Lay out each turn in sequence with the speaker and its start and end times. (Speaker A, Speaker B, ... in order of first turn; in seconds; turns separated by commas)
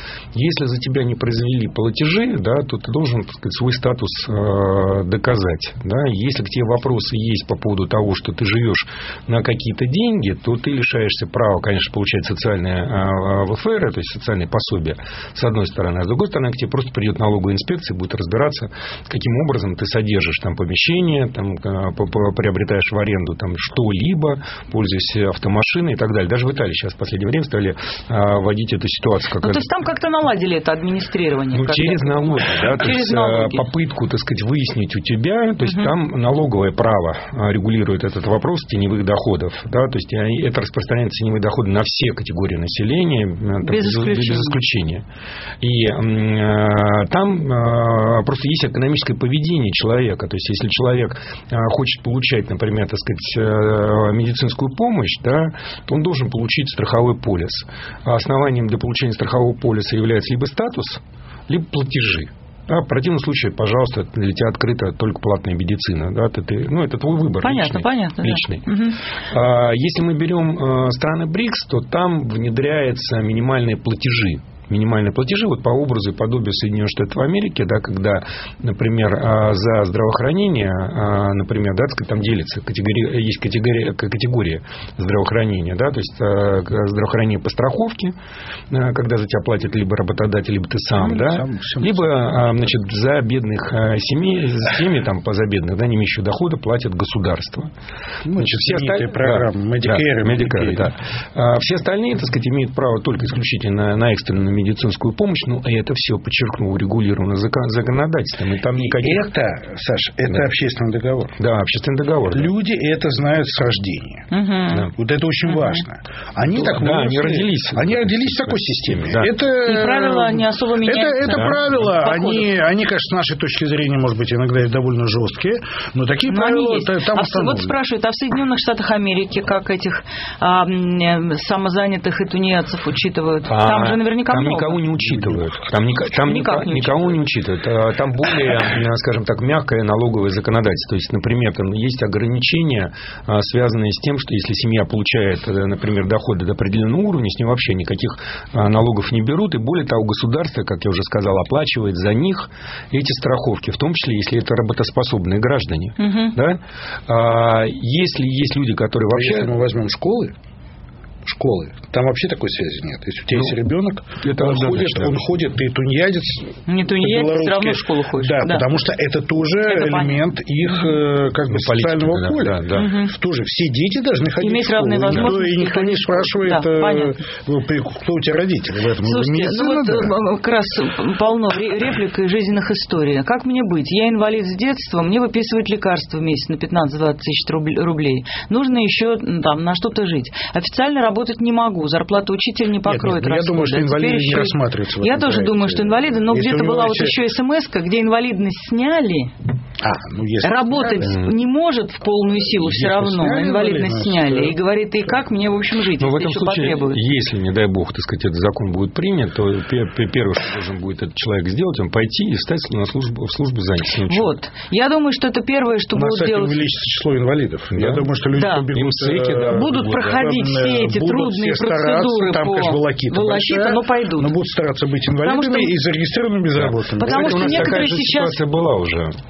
Speaker A: 0.3-29.7, Speaker B: 29.4-33.6, Speaker A: 31.5-45.0, Speaker B: 43.6-44.6, Speaker A: 45.6-68.7, Speaker B: 67.4-69.0, Speaker A: 69.3-88.1, Speaker A: 88.7-97.7, Speaker C: 91.0-92.0, Speaker C: 98.2-100.9, Speaker A: 98.3-109.3, Speaker C: 108.8-111.4, Speaker A: 111.4-112.5, Speaker C: 112.3-114.3, Speaker B: 114.3-114.9, Speaker C: 114.9-127.7, Speaker A: 116.5-119.3, Speaker B: 119.5-122.5, Speaker A: 121.2-121.6, Speaker B: 126.3-134.8, Speaker A: 133.5-159.5, Speaker B: 136.2-137.2, Speaker B: 156.0-156.3, Speaker C: 159.1-160.3, Speaker C: 161.2-180.1, Speaker A: 164.2-165.2, Speaker B: 166.7-168.7, Speaker B: 169.6-170.2, Speaker A: 171.5-172.9, Speaker B: 172.8-173.1, Speaker B: 174.4-177.1, Speaker B: 179.0-199.3, Speaker C: 192.8-197.2, Speaker C: 199.8-201.2, Speaker B: 200.4-207.0, Speaker C: 202.5-204.6, Speaker A: 206.0-214.3, Speaker B: 214.1-216.6, Speaker C: 215.9-227.8, Speaker A: 217.7-218.1, Speaker B: 218.3-218.7, Speaker A: 218.7-220.3, Speaker B: 219.4-224.3, Speaker B: 225.2-225.7, Speaker A: 226.6-229.2, Speaker B: 227.0-228.4